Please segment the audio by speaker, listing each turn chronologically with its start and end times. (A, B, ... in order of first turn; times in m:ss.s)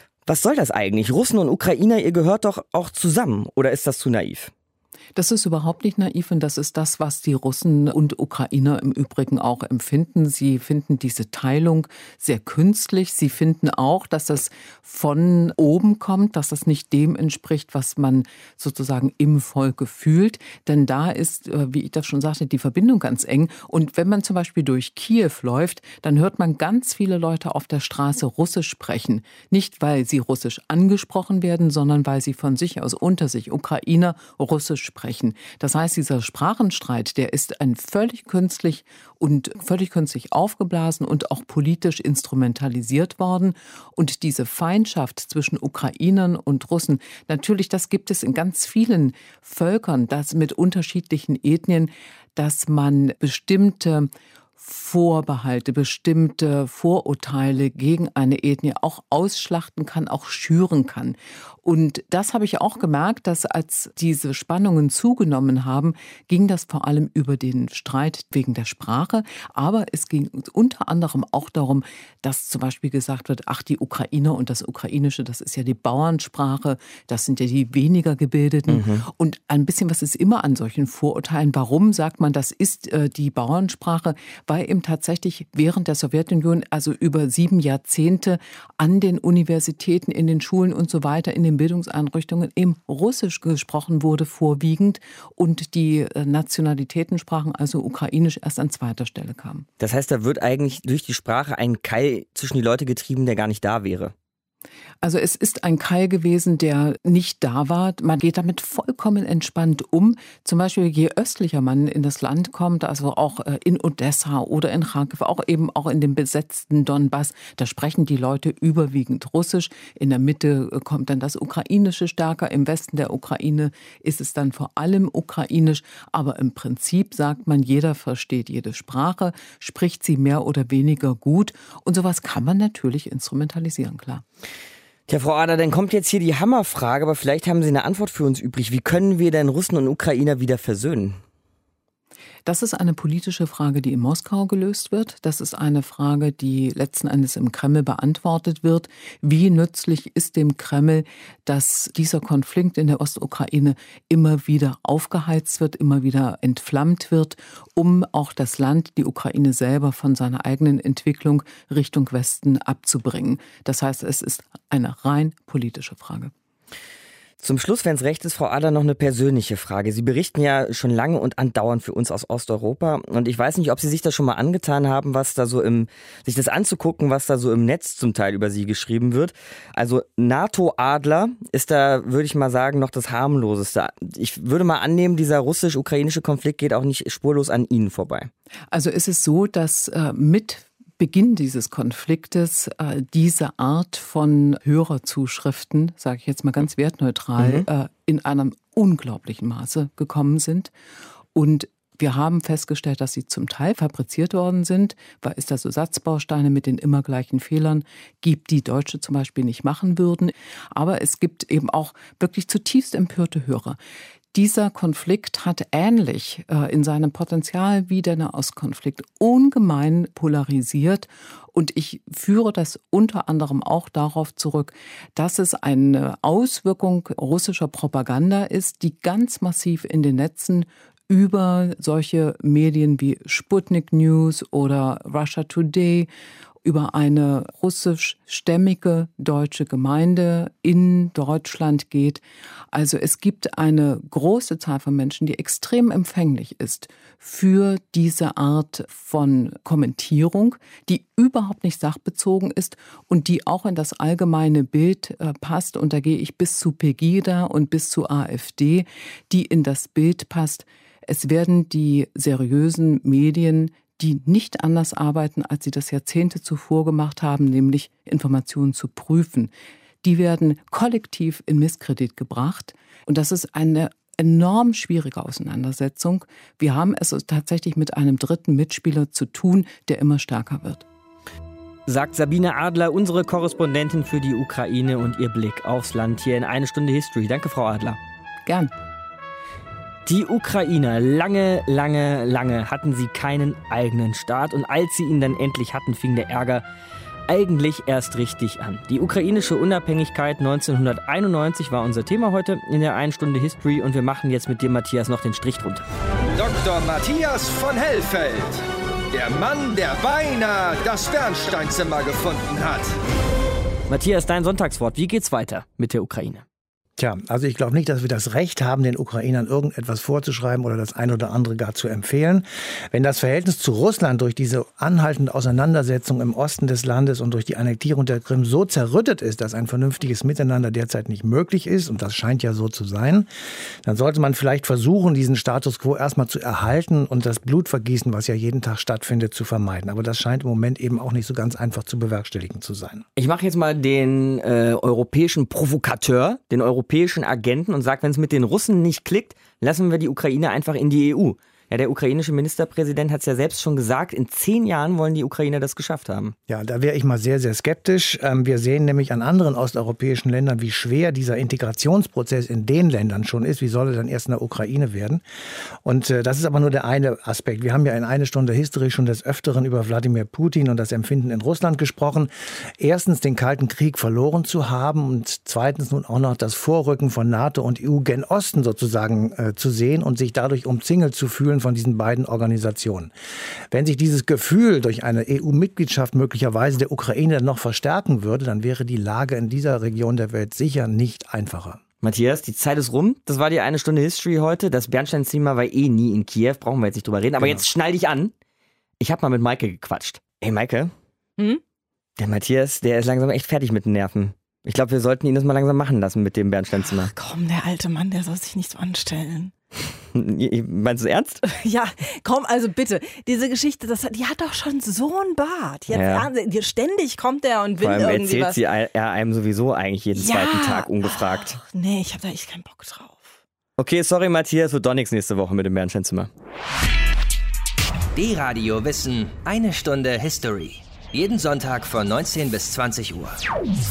0:00.2-0:04.5 A
0:05.2-1:39.6 B
1:18.7-1:19.1 A
1:39.8-1:44.1 A
1:45.0-2:14.2 B
2:15.1-2:21.2 A
2:22.4-2:46.3 B
2:47.4-3:08.3 A
3:08.7-3:20.7 B
3:17.4-3:17.7 A
3:21.4-3:33.8 B
3:34.3-3:56.1 B
3:56.6-4:29.5 B
4:30.0-4:40.8 B
4:41.9-4:48.0 A
4:48.4-4:48.7 B
4:50.1-4:56.6 A
4:57.3-5:05.9 A
5:06.4-5:12.9 C
5:13.9-5:16.4 A
5:17.0-5:33.3 D
5:33.8-5:43.0 D
5:43.2-5:56.4 A
5:56.5-6:05.2 D
6:05.8-6:23.1 D
6:23.7-6:31.8 D
6:32.0-6:38.3 A
6:39.0-6:40.9 A
6:42.2-6:47.1 A
6:46.7-6:49.5 E
6:50.1-6:51.4 A
6:51.4-6:58.6 E
6:55.9-6:56.3 A
6:57.8-7:01.6 A
7:00.1-7:03.4 E
7:03.8-7:06.3 A
7:08.1-7:13.4 F